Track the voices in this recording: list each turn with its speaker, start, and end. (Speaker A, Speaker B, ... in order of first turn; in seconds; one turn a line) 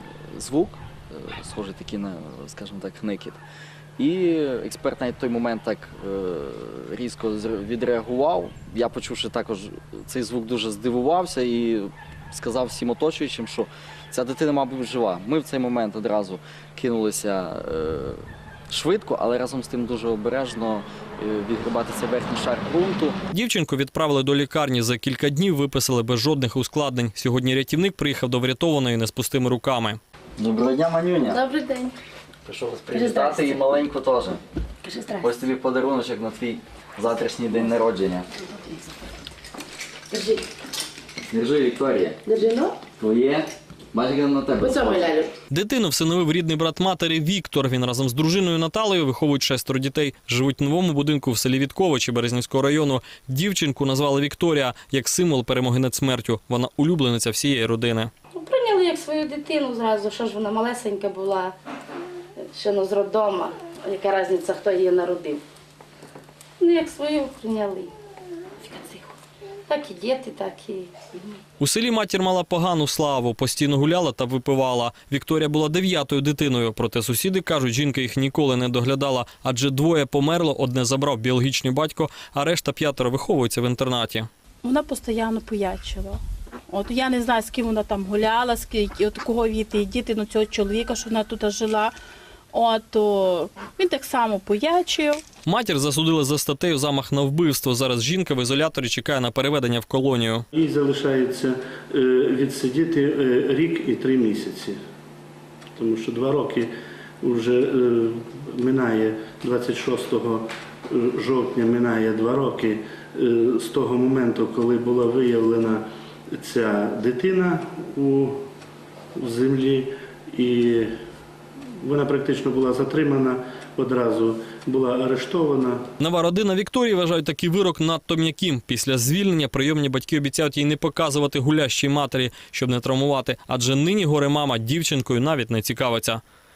Speaker A: 0.3-3.4
Speaker A: 4.0-23.2
Speaker B: 23.3-30.0
Speaker A: 30.4-31.4
Speaker C: 31.2-31.9
Speaker A: 32.4-34.4
Speaker C: 32.9-33.8
Speaker C: 34.8-35.3
Speaker A: 35.2-38.3
Speaker C: 38.5-38.9
Speaker C: 40.1-40.5
Speaker A: 41.3-42.2
Speaker C: 42.2-42.8
Speaker A: 43.0-45.0
Speaker C: 44.6-45.3
Speaker B: 45.5-58.1
Speaker C: 58.3-61.5
Speaker C: 62.4-65.4
Speaker C: 66.6-67.9
Speaker C: 68.6-69.2
Speaker C: 69.7-71.3
Speaker B: 71.6-84.3
Speaker D: 84.6-91.9
Speaker D: 92.5-95.2
Speaker B: 95.4-100.4
Speaker E: 100.5-104.8
Speaker E: 105.8-106.7
Speaker E: 107.2-115.8
Speaker E: 116.3-118.4
Speaker E: 119.2-120.9
Speaker E: 121.8-125.8
Speaker B: 126.0-136.2